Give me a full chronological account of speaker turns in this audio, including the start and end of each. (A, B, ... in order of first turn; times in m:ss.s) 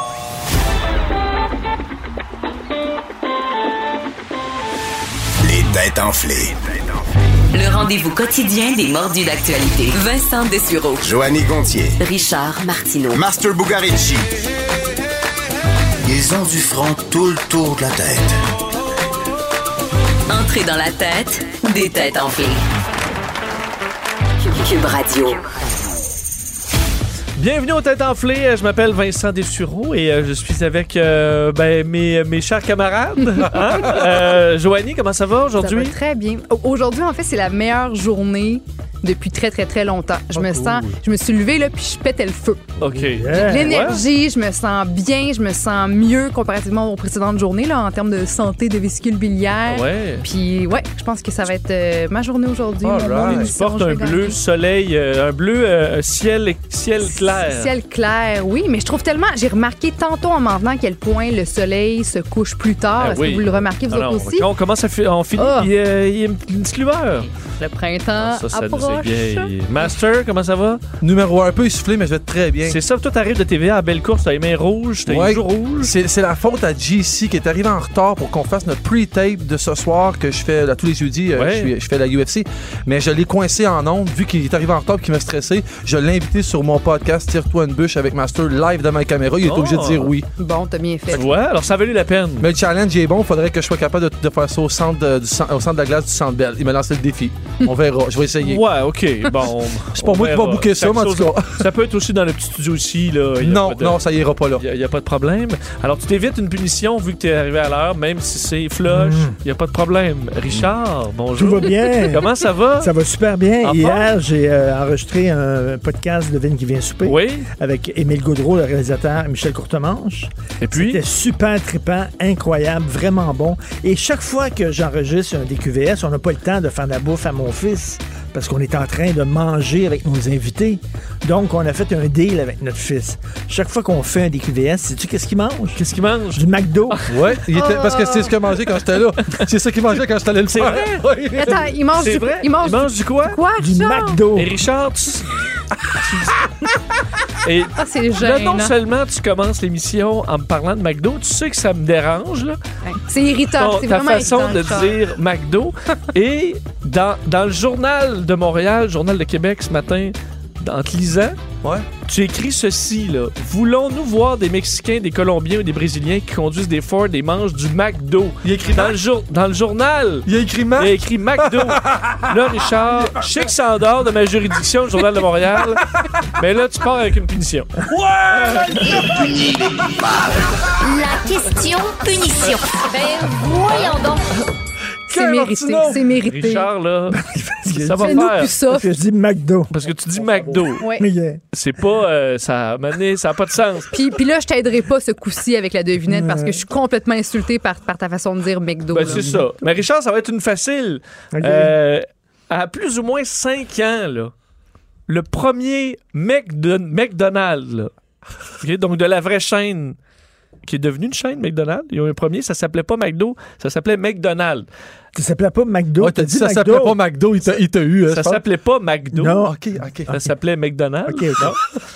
0:05.4-0:06.6 A
0:07.5-0:11.0 B
0:11.0-0:12.0 A
0:12.0-0:13.2 B
0:13.1-0:14.3 A
0:16.0-0:18.4 A
0:20.3-0:22.6 B
0:24.4-0:25.4 B
0:27.4-0:35.9 C
0:35.6-0:42.6 D
0:40.3-0:40.9 E
0:42.8-0:44.0 C
0:43.0-0:43.9 F
0:43.3-0:54.4 D
0:49.7-0:50.2 C
0:52.8-0:53.5 E
0:53.3-0:57.7 C
0:57.0-1:04.5 D
1:03.0-1:07.3 C
1:05.4-1:05.7 D
1:07.5-1:09.5 D
1:08.2-1:10.8 C
1:11.0-1:12.8 E
1:12.6-1:15.9 C
1:15.1-1:30.3 E
1:21.3-1:21.7 C
1:29.4-1:30.1 C
1:30.4-1:31.3 D
1:31.1-1:32.5 C
1:32.4-1:38.6 E
1:38.4-1:44.0 C
1:39.9-1:41.7 E
1:43.4-1:44.6 E
1:44.6-1:52.9 C
1:48.9-1:49.4 F
1:51.4-2:17.0 F
1:53.6-1:54.1 C
1:57.0-1:57.5 C
2:00.6-2:01.0 C
2:15.8-2:17.2 C
2:17.1-2:21.7 E
2:17.5-2:18.3 D
2:20.5-2:21.0 C
2:21.3-2:24.2 D
2:22.0-2:23.4 C
2:23.6-2:24.5 F
2:24.3-2:25.4 C
2:25.9-2:26.4 C
2:27.4-2:32.6 C
2:27.8-2:28.7 D
2:32.8-2:35.0 D
2:33.6-2:41.4 C
2:42.0-2:59.1 C
2:48.4-2:49.0 E
2:50.2-2:52.2 E
2:57.9-2:59.0 E
3:00.8-3:04.2 G
3:05.1-3:06.1 E
3:05.1-3:06.7 D
3:06.2-3:08.5 C
3:07.1-3:09.7 F
3:08.0-3:08.9 D
3:09.7-3:10.8 C
3:10.8-3:11.1 D
3:11.0-3:11.4 F
3:11.5-3:13.9 C
3:13.9-3:19.4 D
3:16.0-3:16.6 F
3:18.9-3:24.3 C
3:19.0-3:19.4 F
3:21.3-3:21.8 F
3:25.1-3:27.9 C
3:28.6-3:30.0 C
3:30.6-3:34.7 C
3:35.1-3:37.0 F
3:36.0-3:38.4 E
3:38.1-3:39.4 C
3:39.1-3:40.3 F
3:39.4-3:40.1 E
3:40.1-3:41.6 C
3:41.0-3:41.6 F